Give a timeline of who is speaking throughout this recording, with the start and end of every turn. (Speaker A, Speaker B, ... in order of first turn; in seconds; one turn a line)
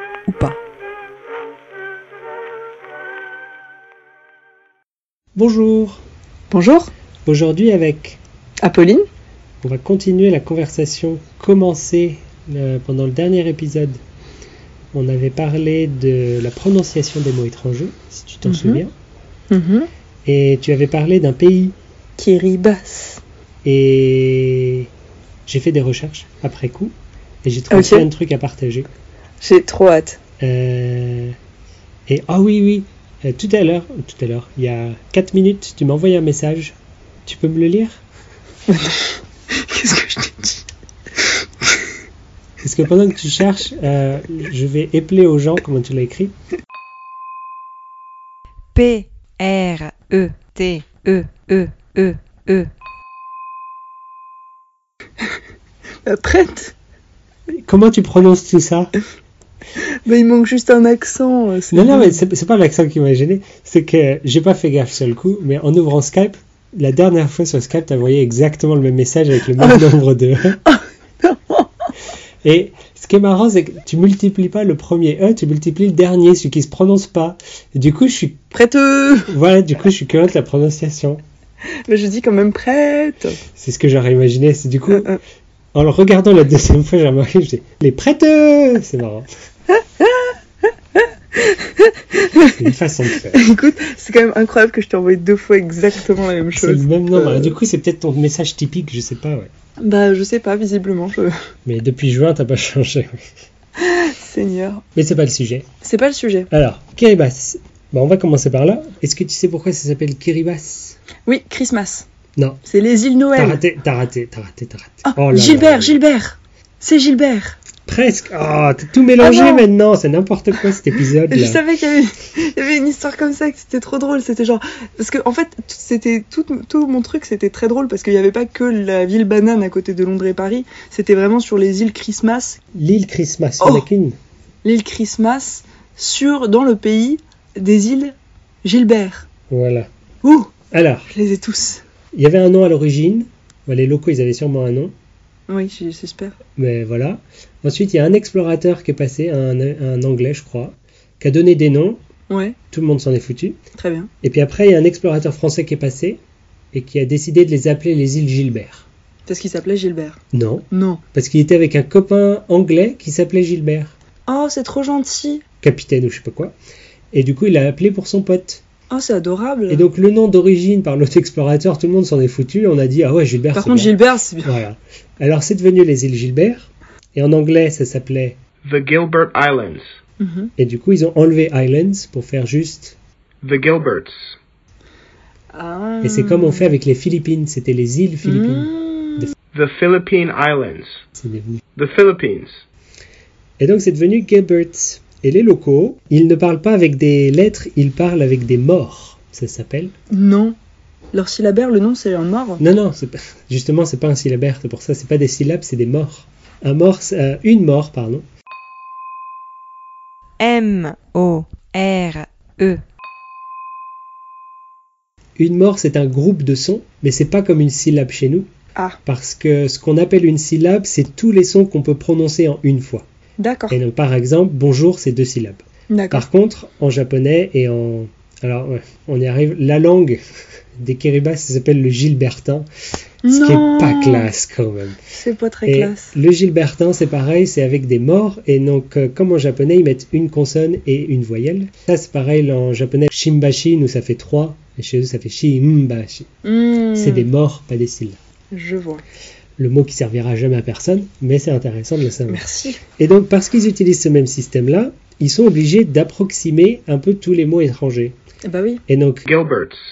Speaker A: 0.3-0.6
Speaker B: 5.3-6.0
Speaker A: 6.5-6.9
Speaker B: 7.3-8.2
Speaker A: 8.6-9.0
Speaker B: 9.6-14.0
Speaker B: 14.9-18.9
Speaker A: 18.5-18.8
Speaker A: 19.5-19.9
Speaker B: 20.3-21.8
Speaker A: 22.2-23.2
Speaker B: 23.6-24.9
Speaker B: 25.5-28.9
Speaker A: 27.7-28.1
Speaker A: 29.4-30.2
Speaker B: 30.4-31.4
Speaker B: 32.1-36.8
Speaker B: 37.3-38.0
Speaker A: 38.7-40.7
Speaker B: 42.6-46.3
Speaker C: 48.8-52.7
Speaker A: 56.0-56.8
Speaker B: 57.7-58.9
Speaker A: 60.1-62.2
Speaker B: 61.7-70.6
Speaker A: 69.6-69.9
Speaker A: 70.7-71.7
Speaker B: 72.4-78.4
Speaker A: 78.5-79.3
Speaker B: 79.3-81.2
Speaker A: 81.9-83.4
Speaker B: 83.6-85.2
Speaker B: 85.7-89.3
Speaker A: 90.0-90.3
Speaker A: 91.0-97.6
Speaker B: 92.5-93.4
Speaker B: 96.6-99.5
Speaker A: 99.8-101.3
Speaker B: 101.7-103.2
Speaker A: 103.8-104.8
Speaker B: 105.0-105.7
Speaker A: 105.8-106.5
Speaker B: 106.5-111.0
Speaker A: 111.3-112.1
Speaker A: 112.7-113.6
Speaker B: 113.4-116.0
Speaker A: 115.1-117.6
Speaker B: 117.9-121.6
Speaker A: 119.2-119.7
Speaker A: 121.3-132.6
Speaker B: 132.8-134.2
Speaker A: 133.6-133.9
Speaker A: 134.6-139.3
Speaker B: 139.5-139.9
Speaker A: 140.2-140.5
Speaker B: 140.7-141.1
Speaker A: 141.1-141.8
Speaker B: 142.1-144.9
Speaker A: 145.5-146.4
Speaker B: 146.6-152.0
Speaker A: 152.3-152.6
Speaker B: 152.7-153.6
Speaker A: 153.8-154.1
Speaker B: 154.2-156.2
Speaker B: 156.7-158.9
Speaker A: 159.3-160.2
Speaker B: 160.3-163.9
Speaker A: 160.7-161.0
Speaker A: 164.3-165.4
Speaker B: 165.6-166.6
Speaker B: 167.1-168.6
Speaker A: 168.9-169.9
Speaker B: 169.7-178.4
Speaker A: 173.5-174.6
Speaker D: 178.7-179.8
Speaker A: 180.2-180.5
Speaker B: 180.6-183.0
Speaker D: 183.4-184.1
Speaker A: 185.5-186.8
Speaker B: 186.0-189.3
Speaker A: 188.2-189.3
Speaker D: 189.5-191.0
Speaker B: 191.2-191.6
Speaker D: 191.8-192.5
Speaker B: 193.6-199.9
Speaker A: 200.1-200.6
Speaker A: 201.1-202.6
Speaker B: 202.6-208.2
Speaker C: 210.4-212.8
Speaker B: 215.4-218.5
Speaker B: 219.1-223.1
Speaker A: 223.4-223.8
Speaker B: 223.7-230.2
Speaker A: 225.9-226.2
Speaker B: 230.8-232.7
Speaker A: 233.2-234.3
Speaker B: 233.3-235.0
Speaker A: 235.2-236.1
Speaker B: 235.7-246.3
Speaker A: 246.4-247.3
Speaker B: 246.9-248.2
Speaker A: 248.5-249.0
Speaker B: 249.6-252.4
Speaker A: 252.3-252.8
Speaker B: 253.0-258.2
Speaker A: 258.5-258.8
Speaker B: 258.9-259.3
Speaker D: 259.3-259.8